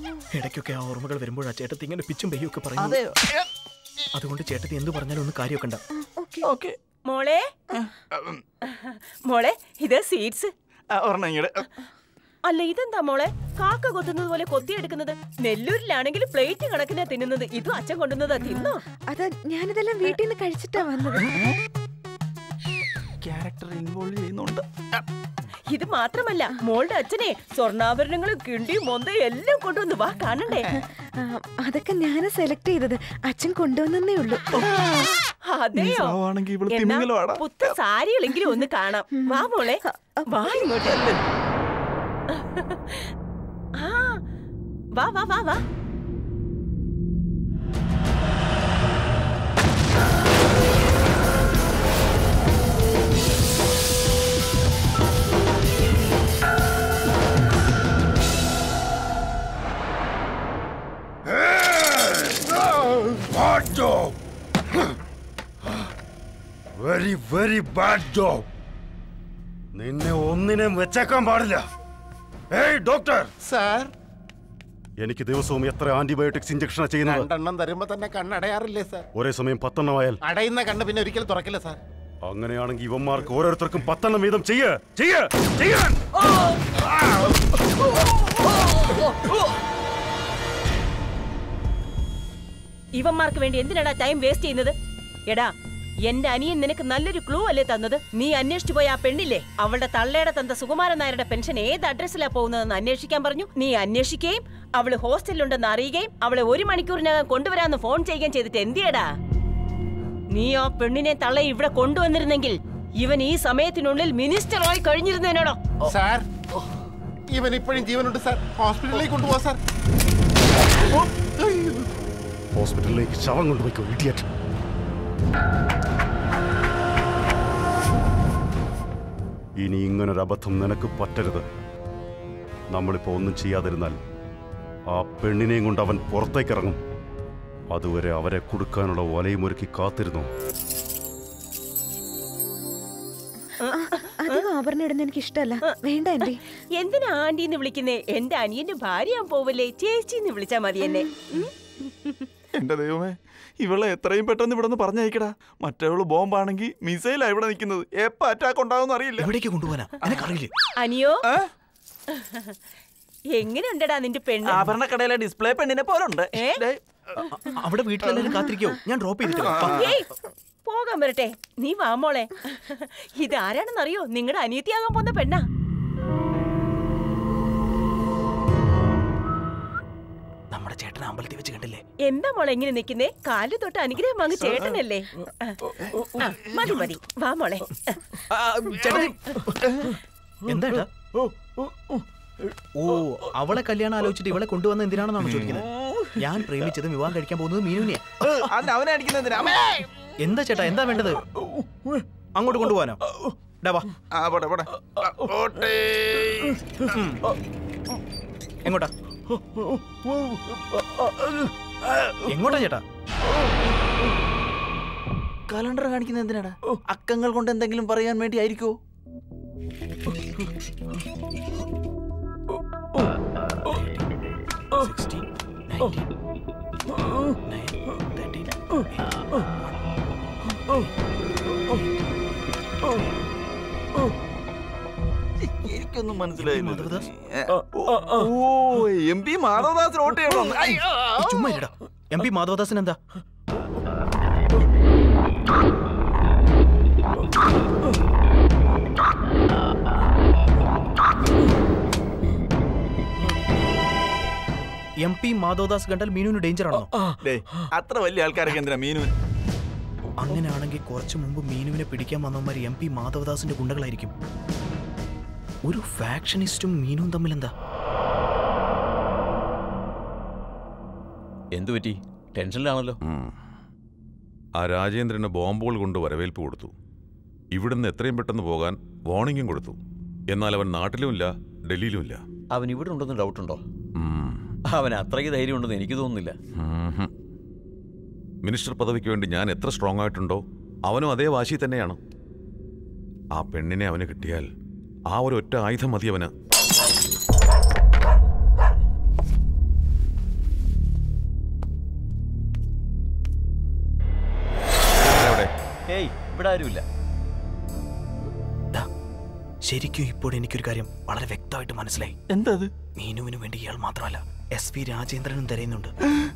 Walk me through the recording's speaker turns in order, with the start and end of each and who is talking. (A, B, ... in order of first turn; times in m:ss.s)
0:00.3-0:03.0 A
0:02.8-0:03.4 B
0:04.1-0:05.8 A
0:06.0-0:06.4 C
0:06.4-0:06.7 B
0:07.1-0:07.5 D
0:07.7-0:08.4 B
0:08.7-0:10.5 D
0:10.9-0:11.6 B
0:12.4-0:18.8 D
0:19.1-0:21.3 C
0:23.2-0:24.6 B
0:25.7-0:30.7 D
0:31.2-0:34.4 C
0:34.6-0:35.1 B
0:35.5-0:36.2 D
0:35.8-0:37.4 B
0:36.7-0:41.2 D
0:39.2-0:40.8 C
0:42.4-0:43.1 D
0:43.8-0:44.2 D
0:45.0-0:45.6 D
1:01.4-1:04.1 E
1:06.8-1:08.4 E
1:09.8-1:11.6 E
1:12.5-1:13.3 E
1:13.4-1:13.9 F
1:15.0-1:17.3 E
1:17.0-1:19.0 F
1:19.1-1:20.2 E
1:20.2-1:21.8 F
1:22.2-1:26.0 E
1:33.0-1:34.7 D
1:36.0-1:49.1 D
1:50.3-1:55.6 D
1:55.8-1:56.2 F
1:57.3-1:59.6 F
2:02.5-2:04.3 E
2:09.6-2:11.4 E
2:12.7-2:14.0 E
2:14.9-2:16.8 E
2:17.7-2:20.3 E
2:23.6-2:24.4 D
2:23.7-2:26.4 C
2:25.6-2:31.5 D
2:32.6-2:39.3 B
2:39.2-2:40.5 A
2:40.8-2:41.2 D
2:42.1-2:42.5 D
2:43.3-2:44.7 D
2:44.5-2:46.8 B
2:46.3-2:46.6 D
2:47.3-2:49.9 A
2:49.4-2:49.8 B
2:49.7-2:50.1 D
2:50.6-2:55.4 D
3:00.5-3:01.8 A
3:02.0-3:05.6 D
3:06.2-3:08.0 D
3:08.3-3:09.5 A
3:10.5-3:10.9 A
3:12.8-3:15.6 A
3:15.2-3:15.6 B
3:16.2-3:18.2 A
3:18.2-3:19.8 B
3:20.2-3:21.2 A
3:22.4-3:23.0 A
3:23.6-3:23.9 A
3:24.1-3:26.6 B
3:26.9-3:27.2 A
3:28.6-3:28.9 A
3:32.3-3:32.8 A
3:35.5-3:38.7 B
3:43.7-3:44.0 A
3:44.7-3:46.0 A
3:47.4-3:48.5 A
3:55.4-4:01.2 B
3:56.4-3:57.0 A
4:01.2-4:03.0 A
4:15.0-4:16.9 A
4:17.2-4:19.1 B
4:20.2-4:24.1 A
4:25.6-4:27.5 A
4:31.5-4:33.0 G
4:33.0-4:33.3 H
4:34.6-4:36.7 H
4:37.5-4:39.8 H
4:40.3-4:42.2 H
4:42.5-4:43.6 G
4:44.0-4:44.4 H
4:44.7-4:46.4 G
4:46.6-4:47.1 H
4:48.4-4:52.0 H
4:53.3-4:54.5 H
4:55.1-4:56.3 H
5:05.1-5:05.5 H
5:05.9-5:06.8 G
5:09.6-5:12.1 A
5:12.3-5:12.7 B
5:13.0-5:15.9 A